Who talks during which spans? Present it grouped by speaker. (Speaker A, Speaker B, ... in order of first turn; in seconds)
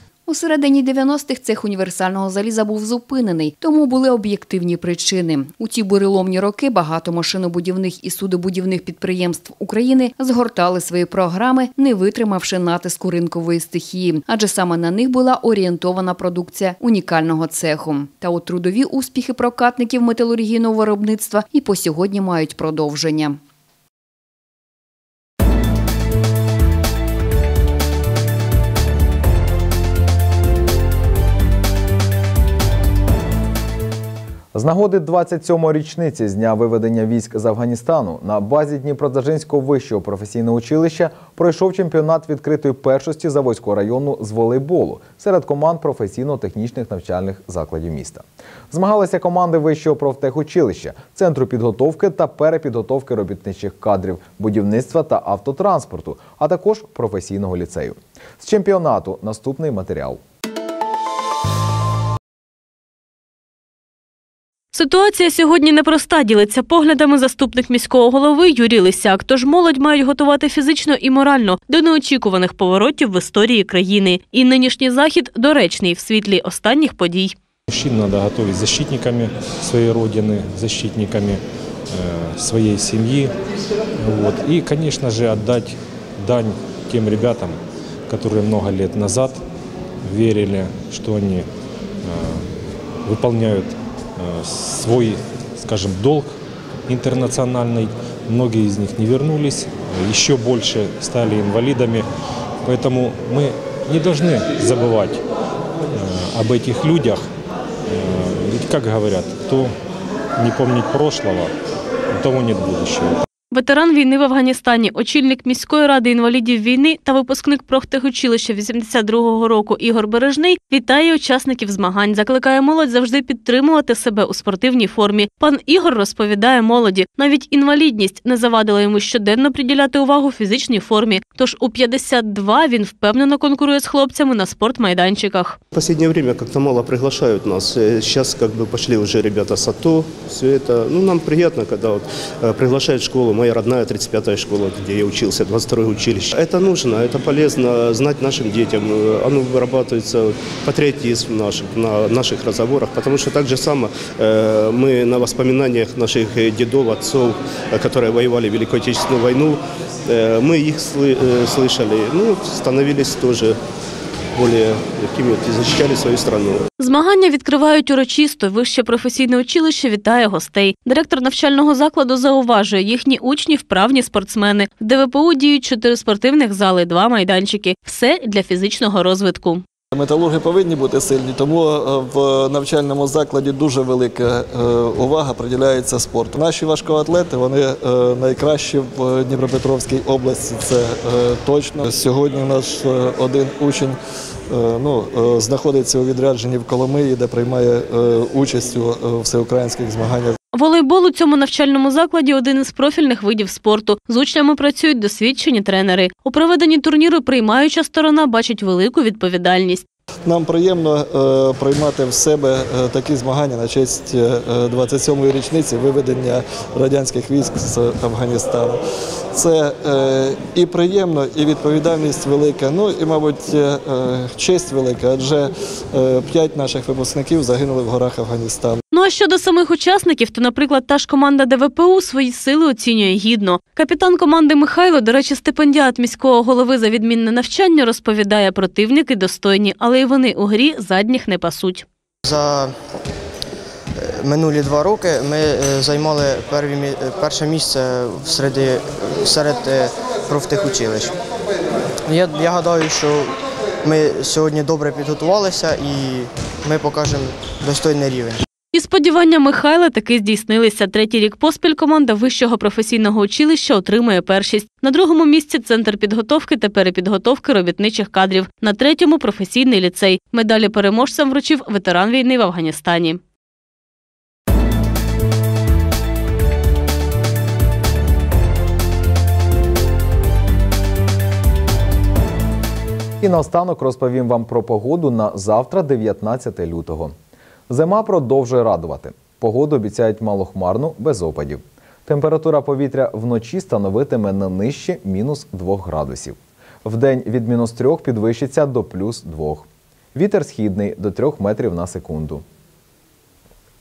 Speaker A: 0.3-23.4
Speaker B: 34.5-60.2, 283.2-287.1, 287.7-302.4
Speaker C: 64.7-77.3, 113.5-135.6, 166.8-179.6, 200.5-209.8, 228.9-241.8, 258.7-273.2
Speaker D: 77.7-83.3, 84.0-87.6, 88.1-89.4, 90.0-91.5, 92.0-92.4, 93.0-96.3, 96.9-102.1, 102.6-105.2, 105.9-107.2, 107.9-109.7, 110.4-111.5, 112.1-113.2
Speaker E: 135.7-163.6, 164.3-166.6
Speaker F: 179.9-193.9, 194.5-200.3, 210.2-218.8, 219.3-225.4, 225.9-228.8
Speaker G: 242.2-242.7, 244.2-251.1, 252.1-253.3, 253.8-258.4